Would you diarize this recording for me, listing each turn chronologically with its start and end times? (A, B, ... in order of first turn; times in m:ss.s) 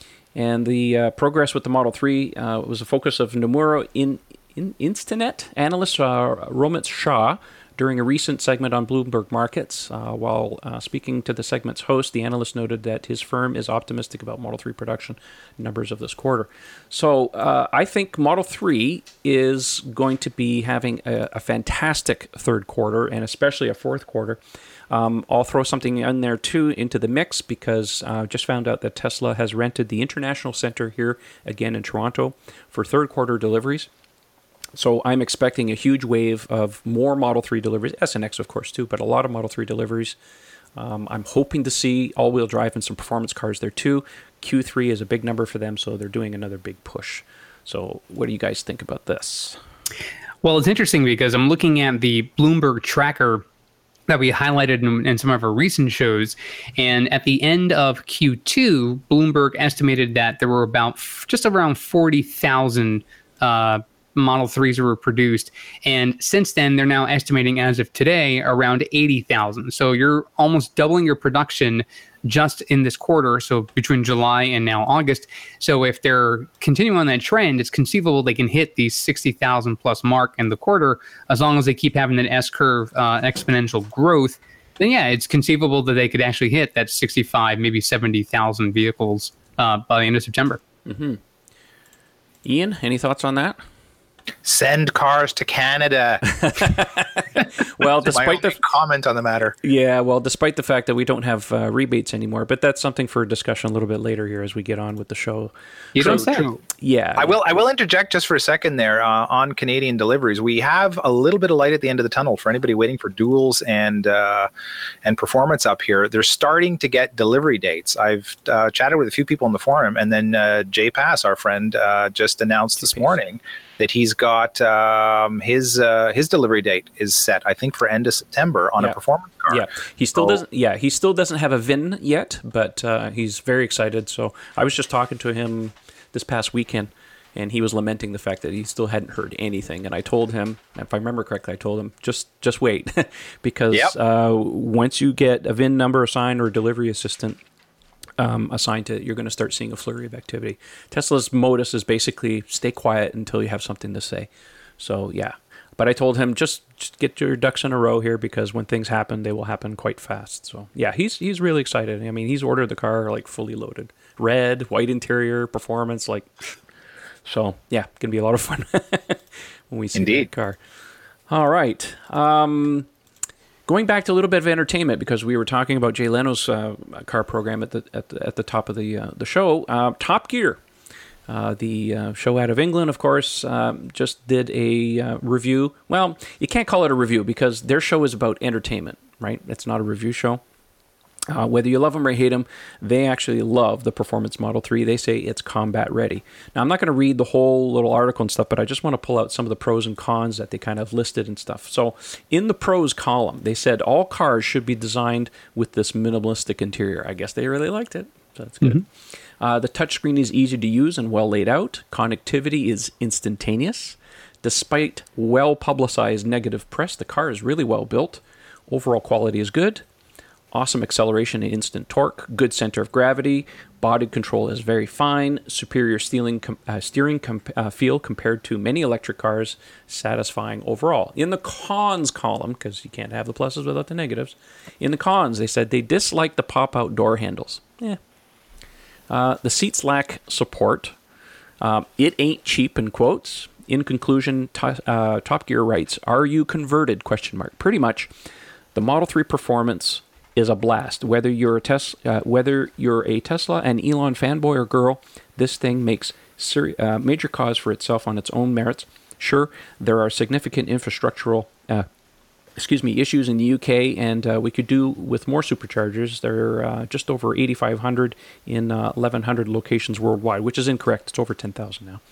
0:00.3-0:24.4 A
0:24.9-0:33.9 A
0:34.8-0:40.2 A
0:40.8-0:49.6 A
0:50.4-0:53.4 B
0:54.1-1:30.6 B
1:30.8-1:31.2 A
1:32.4-1:33.6 A
1:34.4-1:36.8 C
1:36.3-1:38.6 A
1:37.8-1:39.5 C
1:39.6-1:47.4 A
1:45.9-1:46.6 B
1:46.0-1:46.4 C
1:47.2-1:54.5 C
1:55.0-2:09.6 C
2:02.8-2:03.2 A
2:08.8-2:27.4 A
2:10.2-2:10.4 C
2:28.2-2:46.3 A
2:47.2-2:50.6 A
2:49.9-2:50.3 C
2:51.3-2:52.9 A
2:53.7-3:00.6 A
3:01.3-3:10.4 A
3:11.3-3:39.8 A
3:40.5-3:58.0 A
3:59.1-4:00.9 A
4:01.6-4:08.1 A
4:08.7-4:21.9 A
4:22.6-4:32.0 A